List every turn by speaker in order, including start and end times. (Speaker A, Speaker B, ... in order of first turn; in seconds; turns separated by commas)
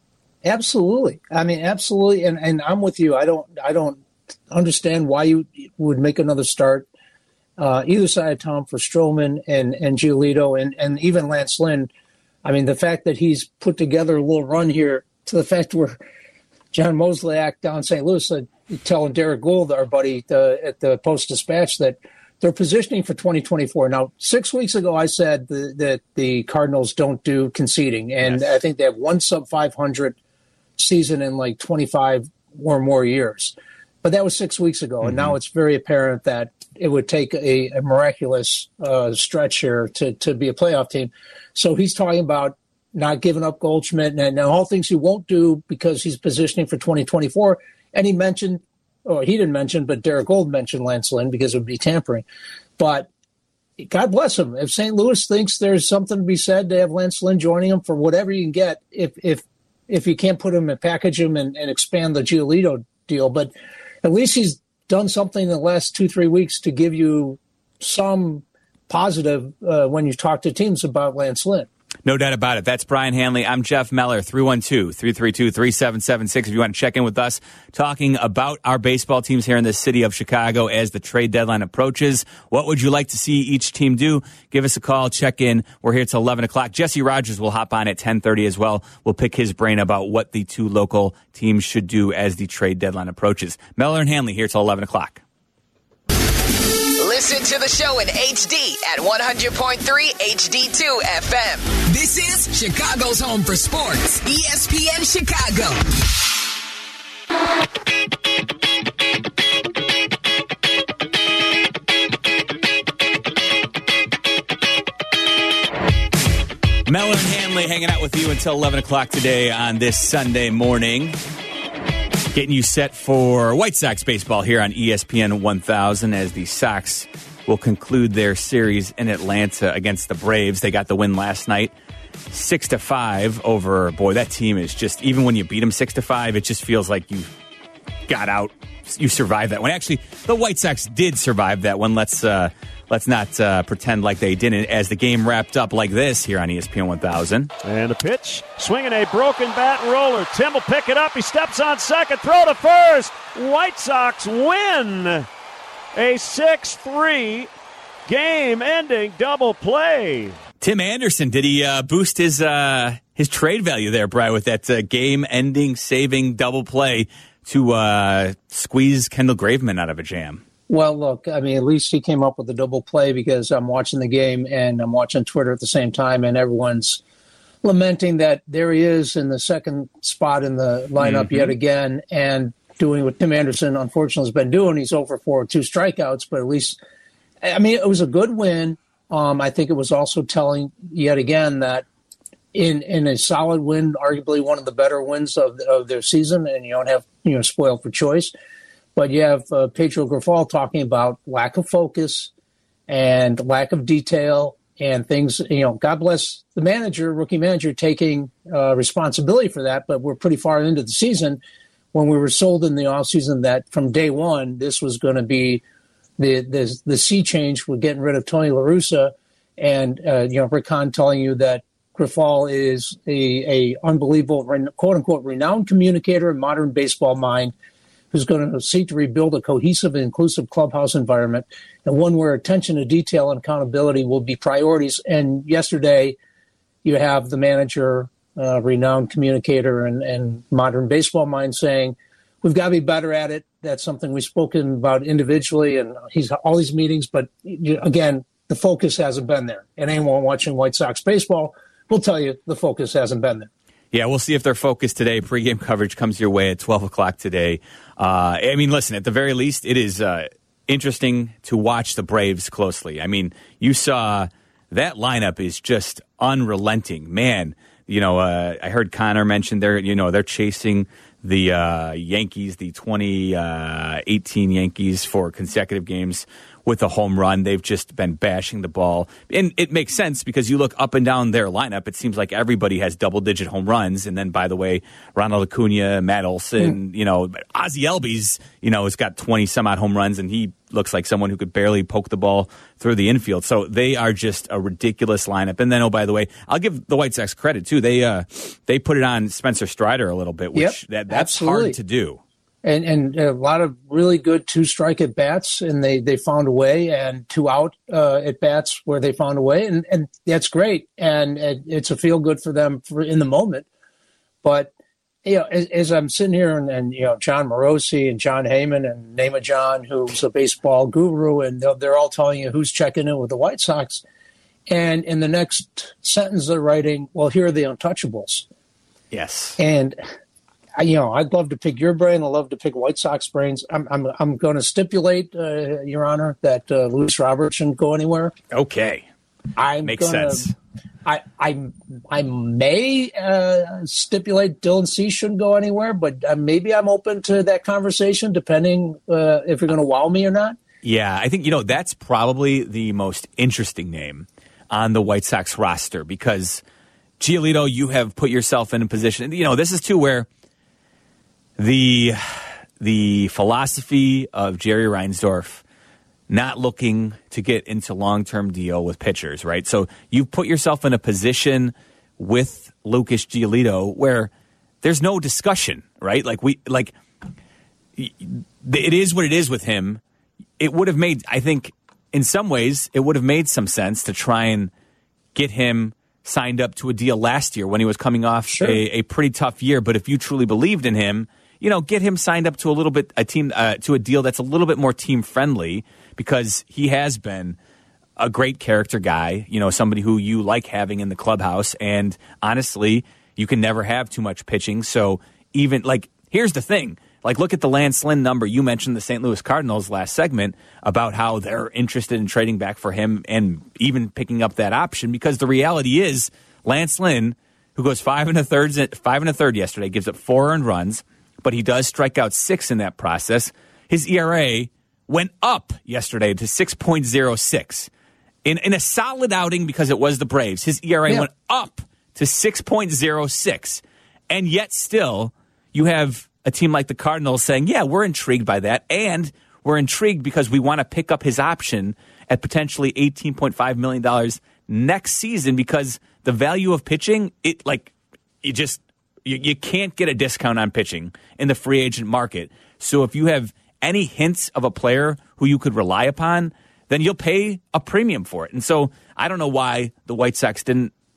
Speaker A: 0.4-6.9, Speaker A: 7.6-11.9, Speaker A: 12.4-16.0, Speaker A: 16.7-30.2, Speaker A: 30.8-52.2, Speaker B: 35.0-35.4, Speaker A: 52.8-53.1, Speaker A: 53.8-63.5, Speaker A: 64.0-71.7, Speaker B: 72.0-95.2, Speaker C: 97.0-105.8, Speaker B: 116.9-121.2, Speaker B: 122.3-131.7, Speaker B: 132.3-137.3, Speaker B: 138.1-147.5, Speaker D: 147.6-155.3, Speaker D: 155.9-157.5, Speaker D: 158.1-160.4, Speaker B: 160.6-170.4, Speaker A: 170.7-177.0, Speaker A: 177.6-186.8, Speaker B: 181.0-181.5, Speaker A: 187.4-191.8, Speaker A: 192.5-198.3, Speaker A: 199.0-202.3, Speaker A: 202.9-211.4, Speaker A: 211.9-215.6, Speaker A: 216.2-227.5, Speaker A: 228.1-236.2, Speaker A: 236.8-253.5, Speaker B: 253.9-302.2, Speaker A: 300.5-301.8, Speaker A: 302.6-313.7, Speaker A: 314.4-314.7, Speaker A: 315.2-324.0, Speaker A: 324.7-328.5, Speaker B: 329.1-329.6, Speaker A: 329.6-330.0, Speaker A: 330.8-338.3, Speaker B: 338.5-339.1, Speaker A: 339.6-340.5, Speaker B: 339.8-340.5, Speaker A: 341.1-350.6, Speaker B: 350.8-356.6, Speaker B: 357.2-360.3, Speaker B: 361.6-365.6, Speaker B: 366.3-374.3, Speaker B: 374.8-376.9, Speaker B: 378.0-380.0, Speaker B: 380.6-384.7, Speaker B: 385.4-397.6, Speaker A: 388.5-388.8, Speaker B: 398.2-427.9, Speaker B: 428.4-460.9